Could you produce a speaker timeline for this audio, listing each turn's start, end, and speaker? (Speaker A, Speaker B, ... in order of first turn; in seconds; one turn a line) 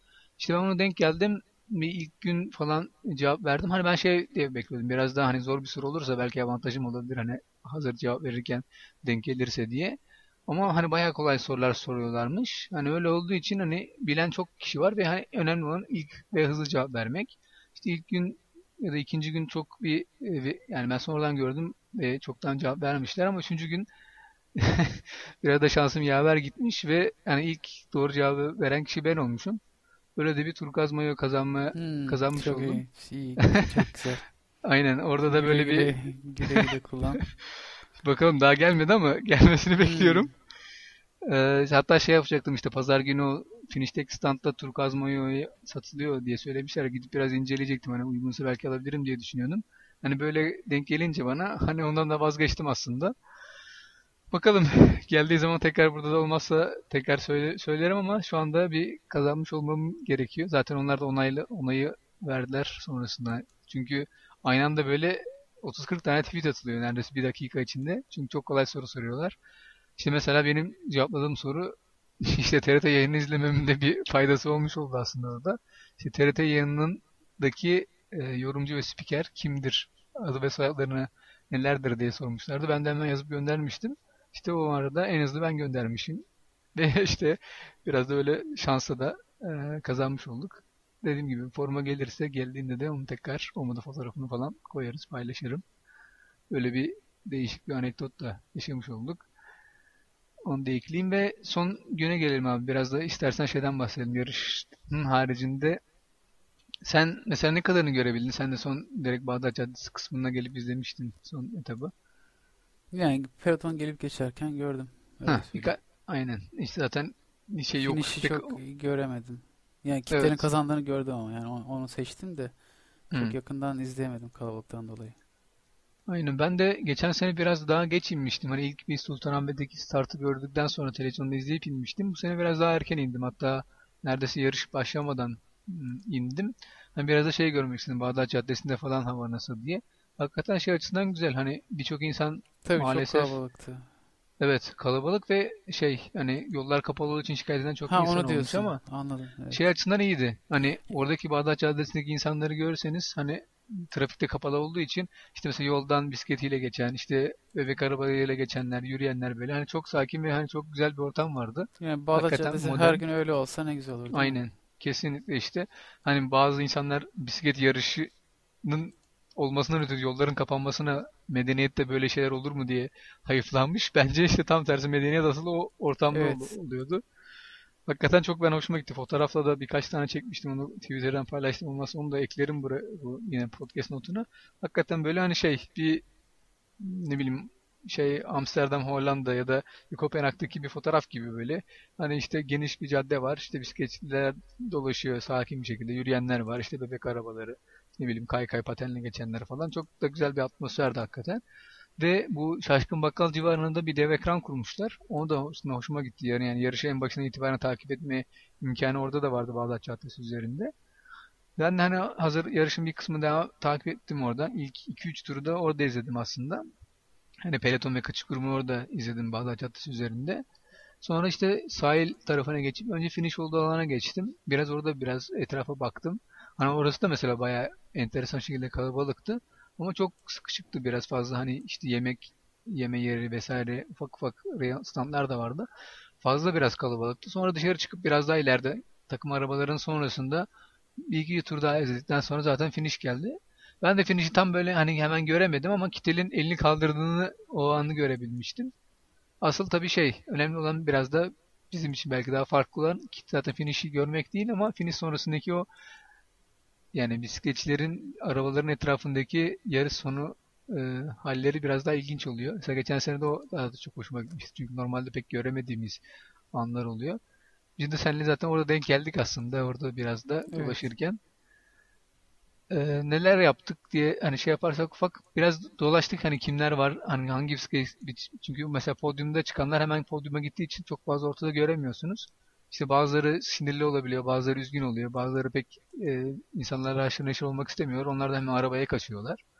Speaker A: 0.4-23.9
Speaker A: 24.6-29.6
Speaker A: 30.2-32.9
Speaker B: 31.8-34.3
Speaker A: 33.4-33.9
Speaker A: 34.6-36.7
Speaker B: 35.3-37.2
Speaker A: 38.0-40.3
Speaker B: 39.8-40.3
Speaker A: 41.2-53.1
Speaker A: 54.3-69.4
Speaker A: 70.0-95.6
Speaker A: 96.5-99.3
Speaker A: 100.4-105.8
Speaker A: 106.8-111.9
Speaker B: 112.9-115.7
Speaker A: 115.2-118.6
Speaker B: 117.8-125.2
Speaker A: 120.1-120.5
Speaker A: 123.1-123.4
Speaker A: 126.1-143.4
Speaker B: 142.6-143.9
Speaker A: 144.4-148.8
Speaker B: 147.9-149.6
Speaker A: 149.5-163.0
Speaker B: 161.8-164.4
Speaker A: 164.1-168.1
Speaker A: 168.6-177.0
Speaker B: 176.1-176.5
Speaker A: 177.9-186.0
Speaker A: 186.8-201.4
Speaker A: 202.0-210.7
Speaker A: 211.6-216.7
Speaker A: 217.4-220.4
Speaker A: 221.0-235.7
Speaker A: 236.2-248.7
Speaker A: 249.4-255.7
Speaker A: 256.9-266.0
Speaker A: 266.5-267.2
Speaker A: 267.8-271.2
Speaker B: 270.5-270.8
Speaker A: 272.7-289.4